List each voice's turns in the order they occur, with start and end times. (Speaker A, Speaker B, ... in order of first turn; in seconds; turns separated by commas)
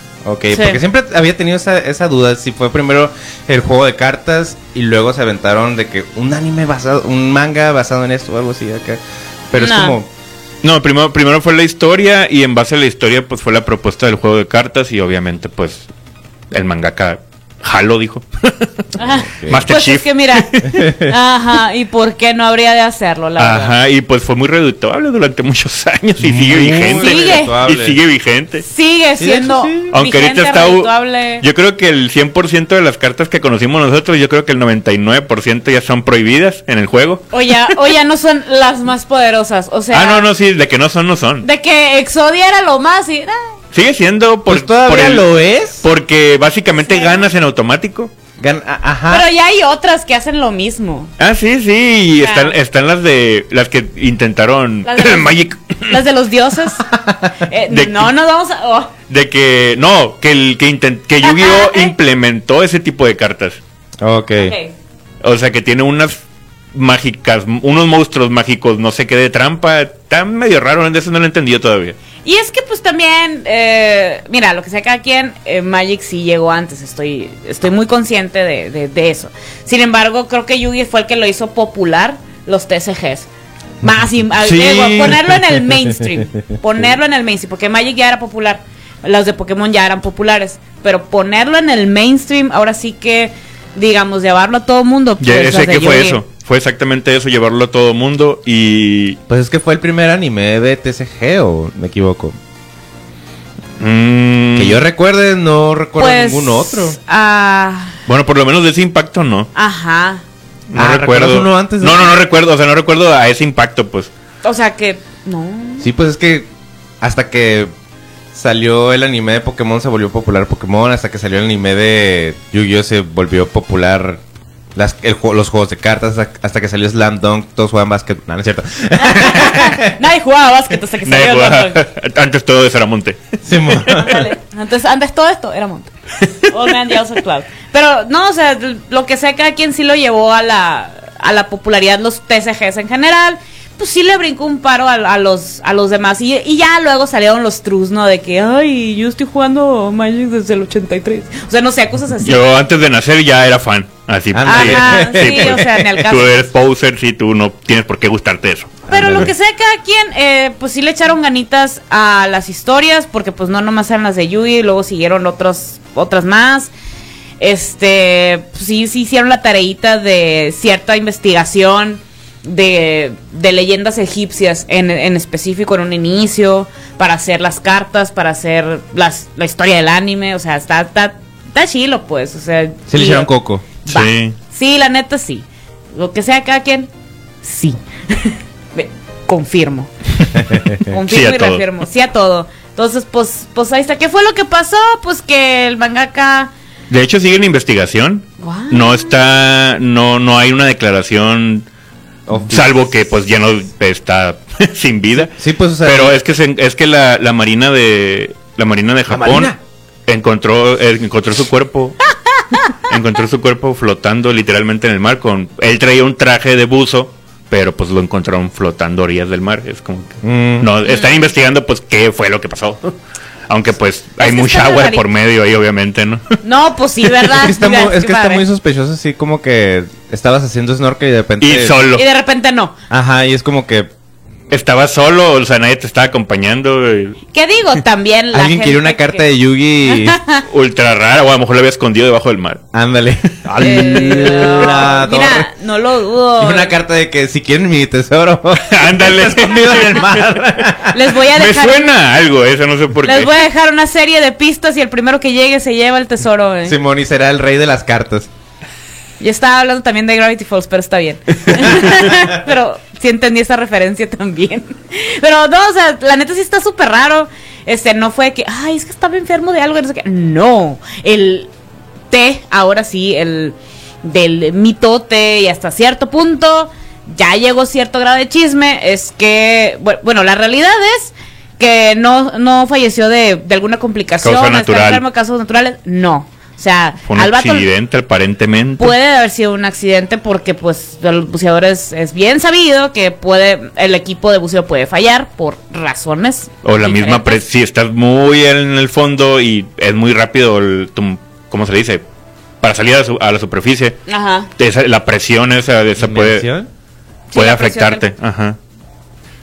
Speaker A: 0.2-9.0, Speaker B: 0.5-0.8, Speaker A: 9.5-10.1, Speaker B: 9.6-10.0, Speaker C: 10.6-15.9, Speaker C: 16.5-18.9, Speaker B: 19.0-23.7, Speaker A: 19.0-19.7, Speaker C: 19.5-20.9, Speaker A: 20.7-21.1, Speaker C: 23.4-28.6, Speaker A: 26.2-28.0, Speaker B: 27.0-27.5, Speaker B: 28.6-31.4, Speaker A: 29.2-29.9, Speaker C: 29.9-37.8, Speaker B: 37.3-40.3, Speaker C: 39.9-41.5, Speaker B: 41.4-43.4, Speaker C: 43.7-45.2, Speaker A: 44.5-45.8, Speaker C: 45.8-48.1, Speaker B: 46.8-47.2, Speaker A: 48.4-49.3, Speaker B: 49.1-51.1, Speaker C: 51.2-56.0, Speaker B: 52.2-52.5, Speaker B: 54.8-56.9, Speaker A: 56.9-57.3, Speaker B: 57.4-58.9, Speaker C: 57.7-58.1, Speaker C: 59.1-63.6, Speaker B: 61.2-61.9, Speaker A: 64.0-64.5, Speaker B: 64.4-64.7, Speaker C: 65.2-66.2, Speaker C: 66.7-72.0, Speaker B: 72.2-83.3, Speaker B: 83.8-96.2, Speaker C: 84.4-85.4, Speaker C: 95.2-99.2, Speaker A: 99.3-102.3, Speaker C: 103.8-104.8, Speaker A: 104.5-107.0, Speaker B: 106.0-108.0, Speaker C: 108.1-109.5, Speaker B: 109.5-110.2, Speaker C: 110.7-114.1, Speaker A: 110.7-112.2, Speaker B: 114.4-115.9, Speaker A: 115.8-116.5, Speaker A: 117.0-117.7, Speaker A: 118.3-124.2, Speaker A: 124.7-129.9, Speaker B: 129.0-131.8, Speaker C: 131.0-134.1, Speaker A: 133.4-134.2, Speaker B: 134.0-152.4, Speaker C: 152.2-158.8, Speaker A: 154.3-155.7, Speaker B: 154.4-156.4, Speaker A: 158.9-159.3, Speaker B: 158.9-166.7, Speaker B: 167.4-183.3, Speaker A: 182.9-183.7, Speaker B: 183.8-186.9, Speaker C: 183.9-184.3, Speaker B: 187.4-189.9, Speaker A: 190.5-190.8, Speaker B: 190.8-196.5, Speaker C: 190.9-191.7, Speaker C: 196.9-201.7, Speaker B: 198.4-199.1, Speaker A: 202.3-202.8, Speaker C: 202.4-209.5, Speaker A: 205.3-206.2, Speaker A: 209.1-209.6, Speaker C: 210.1-212.0, Speaker C: 212.7-222.9, Speaker A: 220.2-220.7, Speaker B: 220.8-221.2, Speaker C: 223.5-226.3, Speaker B: 224.2-225.0, Speaker B: 226.4-228.4, Speaker A: 227.3-231.8, Speaker C: 231.4-232.0, Speaker B: 231.9-232.8, Speaker A: 232.9-233.9, Speaker C: 234.5-237.2, Speaker B: 237.3-239.2, Speaker A: 238.3-240.2, Speaker B: 239.8-240.4, Speaker C: 240.4-242.6, Speaker A: 242.7-245.5, Speaker C: 243.4-244.7, Speaker B: 243.6-246.7, Speaker A: 246.4-251.0, Speaker C: 248.6-253.3, Speaker B: 250.9-251.9, Speaker B: 253.0-256.8, Speaker A: 256.6-258.3, Speaker B: 259.2-271.5, Speaker B: 272.1-287.7, Speaker C: 284.2-285.0, Speaker C: 287.1-288.9, Speaker B: 288.8-297.4, Speaker C: 296.6-302.0, Speaker C: 302.6-304.0, Speaker B: 304.1-304.5, Speaker C: 304.6-306.4, Speaker A: 306.0-306.7, Speaker B: 307.3-308.1, Speaker C: 307.3-308.6